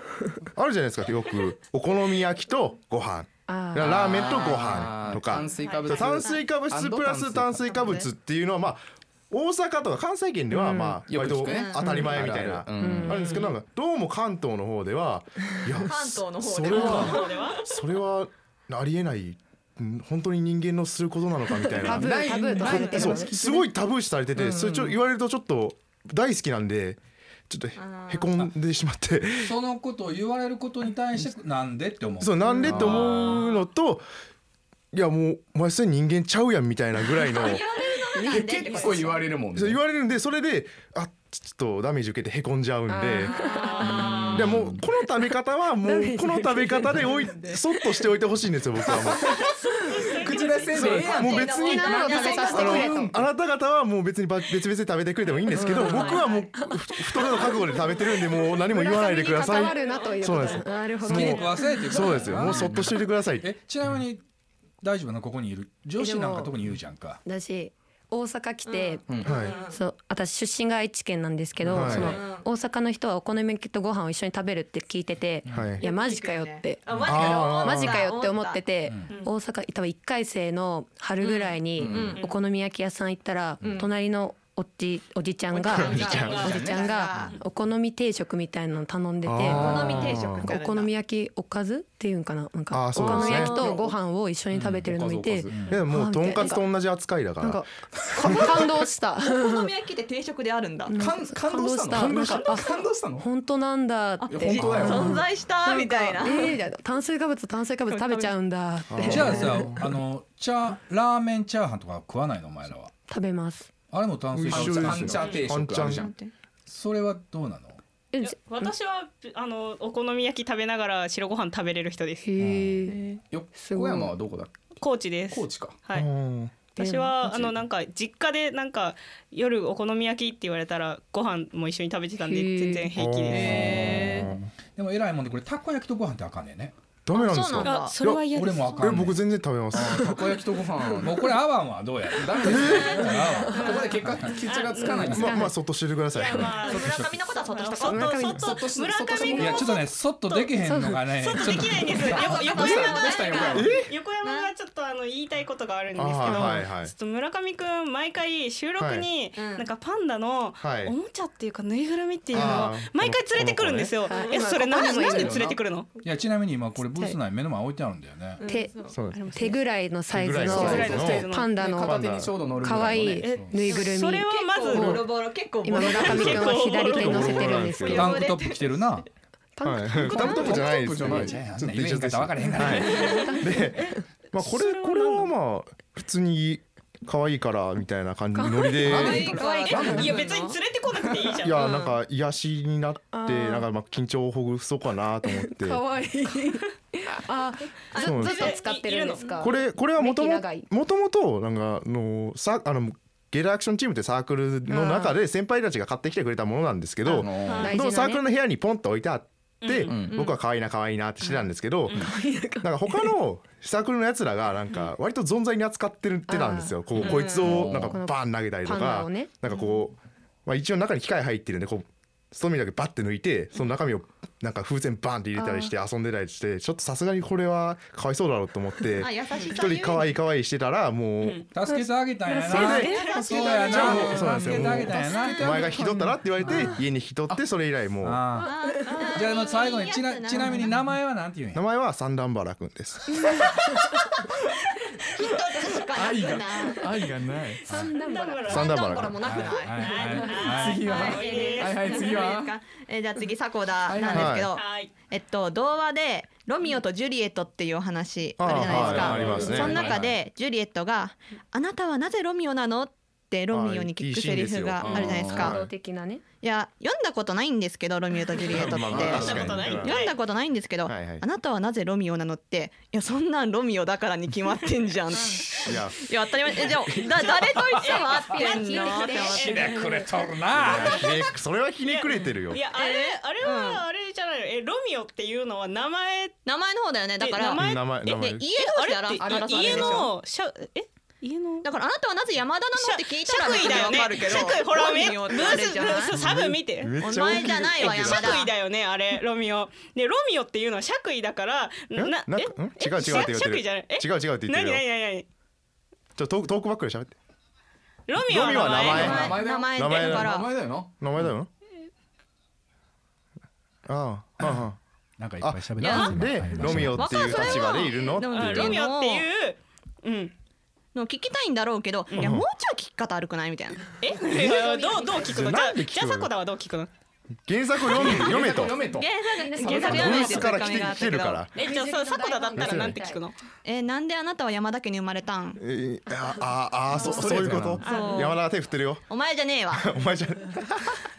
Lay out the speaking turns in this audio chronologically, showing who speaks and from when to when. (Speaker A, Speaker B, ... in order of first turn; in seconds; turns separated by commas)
Speaker A: 0.5-29.5, Speaker B: 3.5-4.1, Speaker C: 3.8-7.9, Speaker D: 4.2-4.8, Speaker D: 5.3-6.5, Speaker D: 7.6-8.1, Speaker B: 10.5-11.0, Speaker C: 11.1-13.3, Speaker D: 11.4-12.3, Speaker B: 12.8-13.2, Speaker D: 15.8-17.6, Speaker E: 16.7-17.6, Speaker B: 21.8-23.3, Speaker C: 21.9-23.7, Speaker C: 24.4-25.0, Speaker D: 27.8-28.3, Speaker F: 29.4-33.1, Speaker A: 32.2-34.0, Speaker C: 32.7-33.0, Speaker D: 32.7-33.3, Speaker E: 32.8-33.5, Speaker A: 34.9-37.6, Speaker D: 37.2-39.4, Speaker B: 38.1-39.0, Speaker C: 38.3-39.8, Speaker A: 39.5-43.5, Speaker B: 42.9-44.2, Speaker D: 43.1-44.6, Speaker C: 44.0-44.8, Speaker A: 44.0-49.4, Speaker B: 45.2-47.1, Speaker D: 47.0-47.6, Speaker E: 49.2-51.0, Speaker C: 50.2-53.2, Speaker A: 50.7-63.5, Speaker D: 50.8-53.0, Speaker B: 51.2-53.1, Speaker B: 55.5-57.7, Speaker D: 55.9-56.4, Speaker B: 58.5-62.0, Speaker E: 59.6-60.6, Speaker F: 61.1-64.2, Speaker C: 62.4-63.0, Speaker F: 64.8-67.2, Speaker B: 66.0-66.5, Speaker B: 67.2-96.6, Speaker D: 68.7-69.8, Speaker C: 69.1-69.3, Speaker A: 69.2-69.5, Speaker E: 69.3-69.6, Speaker C: 71.7-72.2, Speaker A: 71.7-72.2, Speaker D: 71.9-72.5, Speaker F: 75.5-75.8, Speaker A: 75.5-75.8, Speaker D: 75.8-78.7, Speaker A: 77.0-78.0, Speaker F: 78.9-79.2, Speaker D: 81.2-82.2, Speaker C: 81.8-82.2, Speaker D: 83.6-83.9, Speaker D: 85.5-87.4, Speaker A: 86.0-86.3, Speaker E: 86.1-86.6, Speaker A: 89.2-90.5, Speaker D: 89.5-90.9, Speaker A: 92.7-93.8, Speaker D: 93.0-93.9, Speaker F: 94.5-94.9, Speaker C: 94.8-95.7, Speaker F: 95.5-95.8, Speaker A: 95.7-97.6, Speaker B: 97.4-99.7, Speaker A: 98.2-98.6, Speaker D: 99.2-101.0, Speaker B: 100.9-109.7, Speaker C: 101.0-103.3, Speaker D: 104.2-106.6, Speaker C: 104.3-105.2, Speaker A: 104.6-105.2, Speaker D: 107.9-108.3, Speaker A: 108.9-110.0, Speaker F: 109.0-112.9, Speaker B: 113.1-113.7, Speaker F: 113.9-115.2, Speaker A: 114.3-116.1, Speaker C: 114.5-116.1, Speaker D: 115.7-116.3, Speaker F: 116.7-117.8, Speaker B: 118.1-118.7, Speaker E: 118.2-122.2, Speaker B: 122.2-123.0, Speaker D: 122.9-123.2, Speaker C: 123.3-124.5, Speaker B: 123.5-124.1, Speaker E: 124.8-126.1, Speaker C: 125.3-125.8, Speaker A: 125.9-126.5, Speaker E: 126.7-133.6, Speaker B: 126.8-127.4, Speaker B: 132.2-132.9, Speaker A: 132.9-134.5, Speaker D: 133.3-134.3, Speaker F: 133.3-134.1, Speaker F: 134.8-136.8, Speaker A: 137.1-140.2, Speaker D: 137.1-138.0, Speaker E: 137.6-139.0, Speaker F: 138.3-139.2, Speaker C: 139.8-141.3, Speaker F: 141.0-144.3, Speaker C: 142.1-145.4, Speaker A: 142.4-143.2, Speaker D: 142.6-143.8, Speaker B: 143.4-143.7, Speaker E: 143.5-143.8, Speaker E: 144.4-145.2, Speaker A: 145.1-146.6, Speaker B: 145.1-145.6, Speaker E: 146.1-147.0, Speaker D: 146.5-148.3, Speaker F: 146.8-147.3, Speaker E: 147.5-150.5, Speaker B: 147.8-148.5, Speaker C: 148.4-149.8, Speaker F: 149.4-152.2, Speaker B: 150.6-151.1, Speaker E: 151.2-165.9, Speaker D: 152.0-154.5, Speaker C: 152.1-153.8, Speaker A: 153.5-153.9, Speaker A: 155.9-156.9, Speaker A: 158.8-159.1, Speaker D: 159.3-159.7, Speaker A: 160.6-160.9, Speaker A: 162.3-163.9, Speaker B: 164.1-165.5, Speaker C: 164.8-165.6, Speaker F: 166.0-168.4, Speaker D: 168.4-169.0, Speaker B: 168.5-168.7, Speaker A: 168.9-169.2, Speaker E: 169.1-169.6, Speaker B: 169.3-178.1, Speaker A: 170.1-171.3, Speaker E: 170.4-171.6, Speaker C: 170.5-173.3, Speaker A: 171.8-173.0, Speaker E: 173.2-175.1, Speaker F: 173.3-173.6, Speaker D: 173.7-176.6, Speaker E: 175.8-177.6, Speaker A: 176.0-178.2, Speaker D: 177.2-179.0, Speaker F: 177.9-179.1, Speaker B: 179.6-180.5, Speaker A: 179.6-189.4, Speaker C: 180.0-181.4, Speaker D: 180.2-180.6, Speaker F: 180.4-182.9, Speaker B: 182.6-184.0, Speaker D: 182.7-183.3, Speaker E: 182.9-185.3, Speaker B: 188.3-190.0, Speaker D: 188.9-190.6, Speaker C: 188.9-190.1, Speaker E: 189.5-191.6, Speaker A: 191.4-195.8, Speaker D: 191.5-192.0, Speaker B: 193.1-193.7, Speaker B: 195.2-200.7, Speaker D: 197.9-198.6, Speaker A: 198.0-198.5, Speaker E: 198.1-199.2, Speaker A: 199.4-231.5, Speaker B: 204.7-205.2, Speaker C: 207.1-207.7, Speaker B: 207.1-208.2, Speaker E: 209.6-209.9, Speaker C: 209.9-210.2, Speaker B: 211.9-213.1, Speaker B: 216.3-216.8, Speaker E: 217.0-217.3, Speaker D: 217.0-217.6, Speaker C: 217.4-218.0, Speaker B: 217.6-219.3, Speaker B: 225.4-225.7, Speaker D: 229.0-230.1, Speaker F: 231.5-236.8, Speaker B: 232.3-236.0, Speaker A: 232.5-238.3, Speaker E: 232.7-234.2, Speaker D: 232.8-233.8, Speaker C: 233.5-233.9, Speaker F: 238.0-238.5, Speaker D: 238.4-240.8, Speaker B: 238.4-239.0, Speaker E: 238.9-239.2, Speaker F: 239.1-241.7, Speaker A: 241.5-243.4, Speaker D: 245.2-247.0, Speaker C: 245.7-247.9, Speaker B: 247.7-248.7, Speaker E: 247.7-249.2, Speaker A: 248.5-249.4, Speaker D: 248.5-265.6, Speaker F: 249.2-250.8, Speaker E: 249.7-252.1, Speaker C: 250.5-252.5, Speaker C: 253.9-254.4, Speaker A: 254.1-254.5, Speaker E: 254.3-254.9, Speaker A: 258.4-260.0, Speaker C: 258.5-260.2, Speaker B: 258.8-259.2, Speaker A: 263.5-265.7, Speaker C: 264.8-265.5, Speaker B: 265.3-266.2, Speaker D: 266.4-279.8, Speaker A: 268.5-270.1, Speaker E: 268.9-270.1, Speaker C: 268.9-269.4, Speaker A: 270.9-271.2, Speaker A: 275.6-277.6, Speaker E: 277.8-279.8, Speaker B: 277.9-280.1, Speaker F: 279.4-281.1, Speaker A: 280.6-282.6, Speaker E: 280.8-281.2, Speaker E: 281.9-286.4, Speaker D: 282.7-283.9, Speaker D: 286.4-290.1, Speaker E: 287.2-291.7, Speaker A: 287.6-288.4, Speaker C: 289.2-290.0, Speaker D: 291.6-296.3, Speaker E: 292.8-305.2, Speaker A: 296.1-298.5, Speaker D: 297.0-298.5, Speaker A: 301.9-304.8, Speaker A: 306.2-307.1, Speaker E: 308.1-309.3, Speaker A: 308.2-311.5, Speaker C: 308.7-310.9, Speaker D: 308.9-310.6, Speaker A: 313.9-314.8, Speaker F: 315.2-317.2, Speaker A: 315.4-318.8, Speaker D: 315.8-319.3, Speaker E: 318.3-320.3, Speaker D: 320.9-325.4, Speaker E: 322.1-322.4, Speaker A: 322.2-322.5, Speaker E: 324.0-326.9, Speaker B: 324.4-325.2, Speaker A: 325.2-326.3, Speaker A: 327.5-328.8, Speaker C: 327.9-329.1, Speaker D: 328.5-331.5, Speaker B: 329.4-330.4, Speaker E: 329.6-330.5, Speaker A: 329.6-331.5, Speaker C: 329.9-330.2, Speaker B: 331.6-333.2, Speaker E: 331.6-333.3, Speaker A: 332.6-333.0, Speaker D: 333.6-335.6, Speaker A: 335.6-339.1, Speaker C: 337.1-337.8, Speaker D: 337.2-338.4, Speaker E: 337.8-338.4, Speaker D: 339.1-339.9, Speaker A: 339.7-340.9